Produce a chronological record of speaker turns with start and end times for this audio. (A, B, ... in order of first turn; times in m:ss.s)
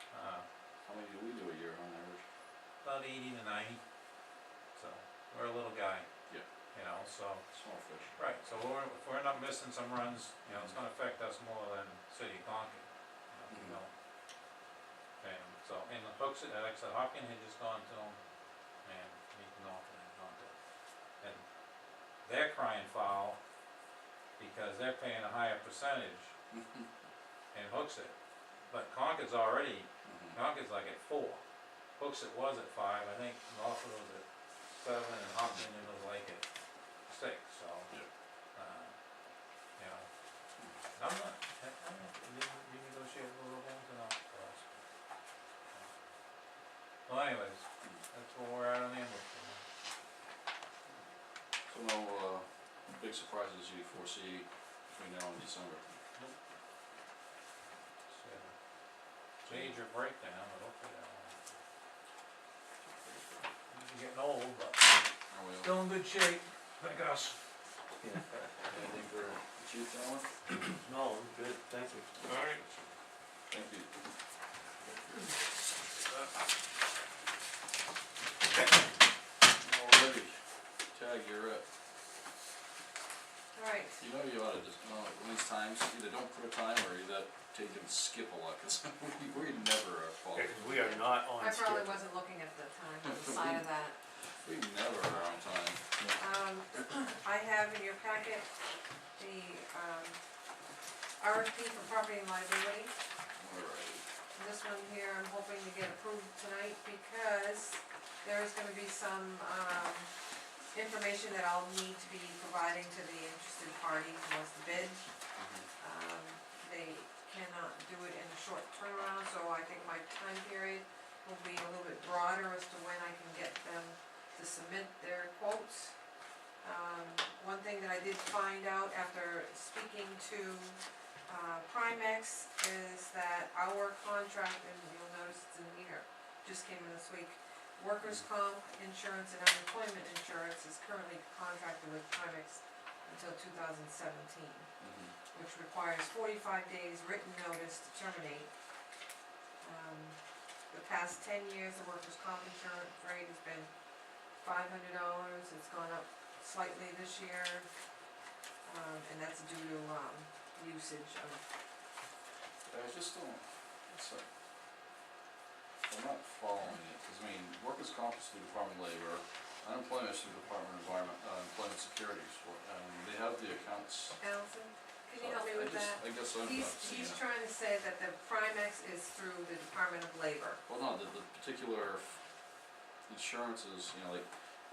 0:00.1-0:00.4 A
0:00.8-0:02.2 B
0:02.8-0:03.8 A
0:04.7-0:06.1 A
0:06.7-0:07.4 A
0:07.5-0:08.2 B
0:08.2-0:13.9 A
0:10.5-0:10.7 B
0:13.5-0:13.8 B
0:15.2-0:18.2 A
0:18.8-0:20.5 A
0:22.2-0:23.4 A
0:24.4-0:26.3 A
0:26.5-0:26.9 B
0:27.5-0:28.1 A
0:28.7-0:31.4 A
0:30.0-0:30.4 B
0:32.0-0:36.4 A
0:37.1-0:37.9 A
0:38.5-0:38.9 A
0:39.8-0:40.1 A
0:41.0-0:44.8 A
0:47.0-0:49.6 A
0:51.7-0:52.4 B
0:53.0-0:55.8 B
0:58.1-0:58.5 A
0:59.4-1:01.5 A
0:59.4-0:59.7 B
1:03.7-1:05.0 A
1:05.3-1:05.7 B
1:05.6-1:07.4 A
1:08.0-1:08.4 C
1:08.7-1:10.3 B
1:10.7-1:12.3 C
1:12.2-1:12.6 B
1:13.5-1:13.9 B
1:19.6-1:20.4 B
1:20.9-1:21.6 B
1:23.5-1:24.0 D
1:24.0-1:30.6 B
1:30.3-1:32.0 C
1:30.8-1:34.0 D
1:33.0-1:33.6 B
1:34.4-1:36.1 B
1:36.2-1:38.5 D
1:39.2-1:40.2 D
1:41.2-1:42.9 D
1:43.3-1:44.0 B
1:44.3-1:50.1 D
1:50.7-1:55.0 D
1:55.4-1:55.6 B
1:55.8-2:05.9 D
2:06.6-2:24.7 D
2:24.8-2:25.2 B
2:25.3-2:28.5 D
2:29.6-2:30.2 D
2:30.7-2:33.7 D
2:34.4-2:37.7 D
2:38.6-2:41.4 D
2:42.6-2:44.2 B
2:45.8-2:54.2 B
2:54.2-3:00.6 D
2:55.2-2:57.2 B
3:00.7-3:02.1 B
3:03.1-3:04.3 B